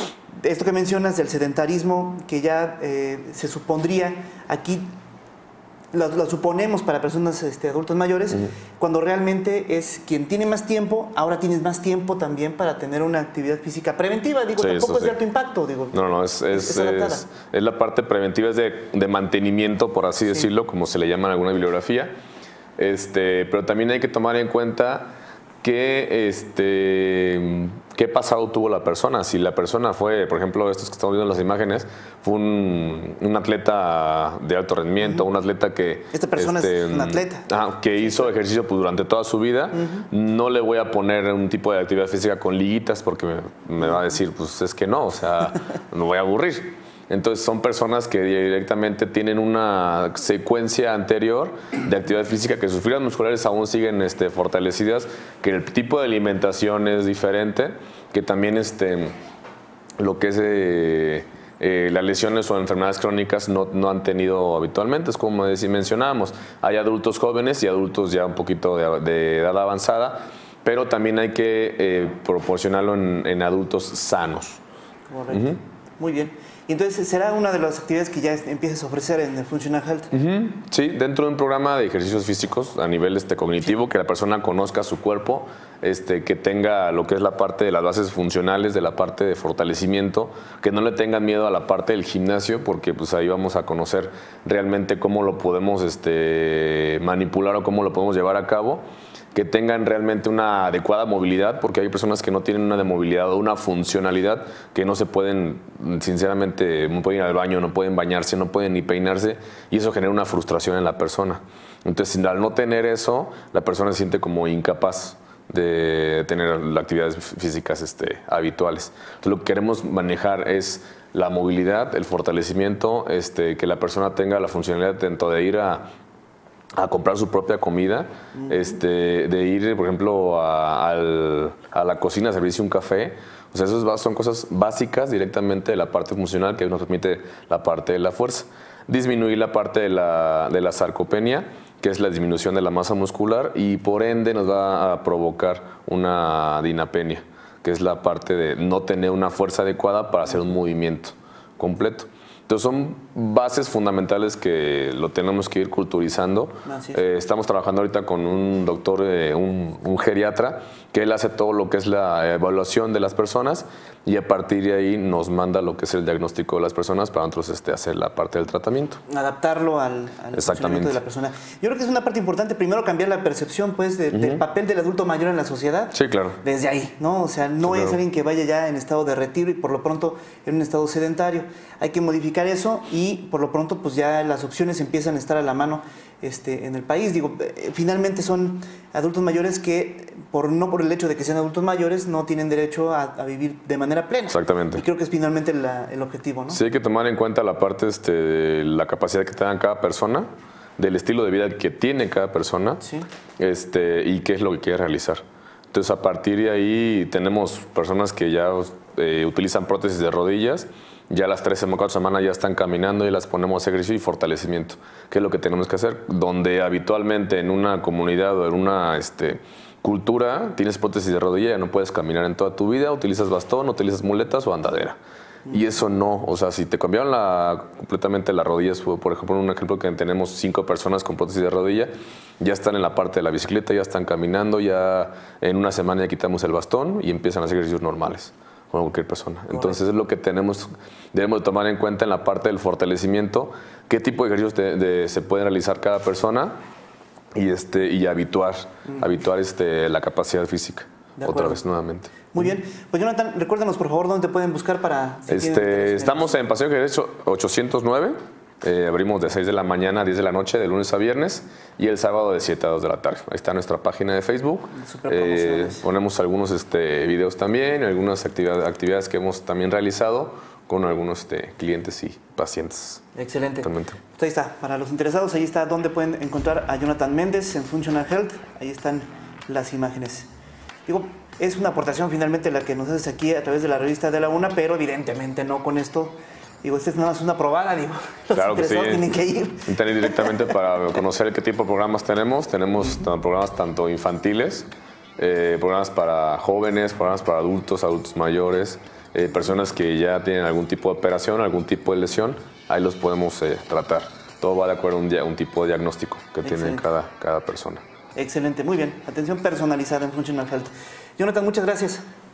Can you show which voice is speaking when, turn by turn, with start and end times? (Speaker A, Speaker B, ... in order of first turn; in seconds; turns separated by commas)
Speaker A: 0.4-4.9, Speaker A: 5.9-17.2, Speaker B: 14.6-15.2, Speaker B: 15.9-22.1, Speaker B: 22.8-25.1, Speaker B: 25.6-59.1, Speaker A: 36.1-37.5, Speaker A: 38.0-38.3, Speaker A: 39.7-40.0, Speaker B: 60.0-74.6, Speaker A: 75.1-80.1, Speaker B: 75.3-75.6, Speaker B: 80.1-98.8, Speaker B: 99.3-125.9, Speaker B: 126.8-169.0, Speaker A: 128.3-128.7, Speaker A: 156.6-157.0, Speaker A: 169.1-196.6, Speaker B: 170.3-171.0, Speaker B: 174.1-174.4, Speaker B: 175.9-176.4, Speaker B: 177.6-178.0, Speaker B: 194.3-194.8, Speaker B: 196.5-200.3, Speaker B: 200.8-202.8, Speaker A: 202.8-203.1, Speaker B: 203.4-224.9, Speaker B: 225.5-246.6, Speaker A: 239.5-239.8, Speaker B: 247.3-252.4, Speaker A: 251.2-251.6, Speaker A: 252.3-256.4, Speaker B: 255.3-273.1, Speaker A: 264.7-265.8, Speaker A: 273.1-280.3, Speaker B: 273.6-274.0, Speaker A: 280.9-290.5, Speaker B: 288.3-289.1, Speaker B: 289.6-294.7, Speaker B: 295.2-307.8, Speaker A: 306.4-306.8, Speaker A: 308.1-312.0